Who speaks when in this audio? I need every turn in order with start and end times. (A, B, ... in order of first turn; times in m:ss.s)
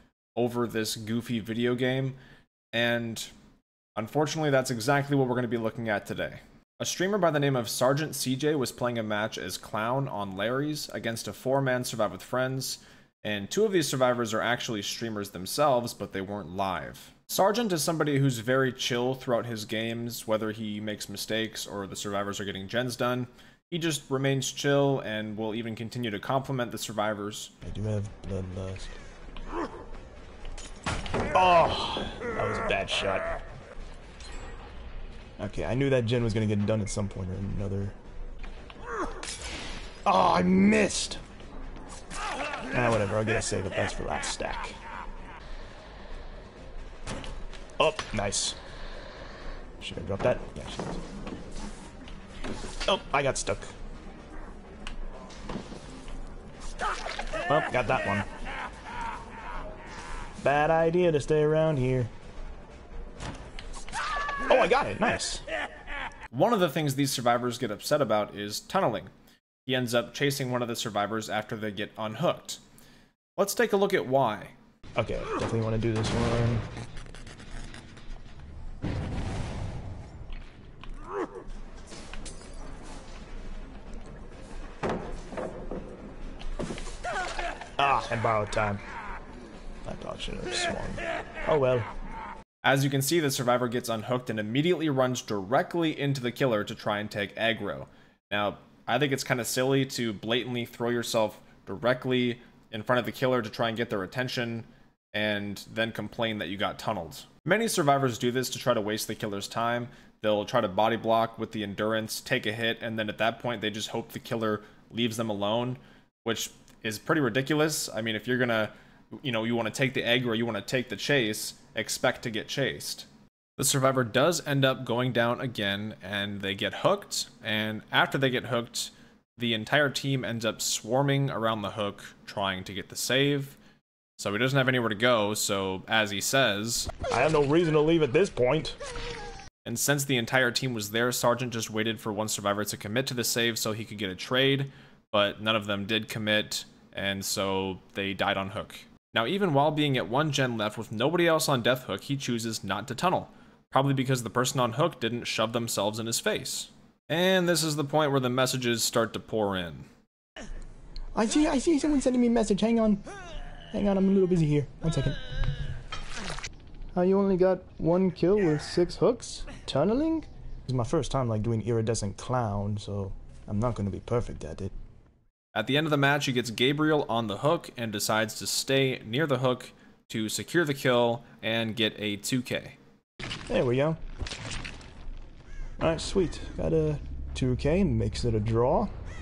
0:00.4-0:02.2 A
0:02.7-0:03.3 A
0:04.0-0:27.5 A
0:27.6-0:28.9 B
0:31.3-0:33.4 B
0:35.4-0:38.0 B
0:40.0-0:41.2 B
0:42.7-0:44.8 B
0:47.8-0:48.6 B
0:49.8-0:51.0 B
0:52.8-0:53.7 B
0:57.5-0:58.3 B
1:00.4-1:02.1 B
1:04.5-1:05.4 B
1:06.3-1:09.1 A
1:09.6-1:12.6 A
1:13.4-1:14.5 A
1:15.0-1:16.6 B
1:27.8-1:28.8 B
1:29.8-1:31.9 B
1:32.6-2:13.6 A
2:14.2-2:16.9 A
2:17.1-2:18.8 B
2:19.6-2:39.8 A
2:41.1-2:43.0 B
2:43.7-2:45.2 B
2:46.9-2:54.7 B
2:55.5-3:02.8 A
3:03.5-3:04.0 B
3:05.8-3:08.9 B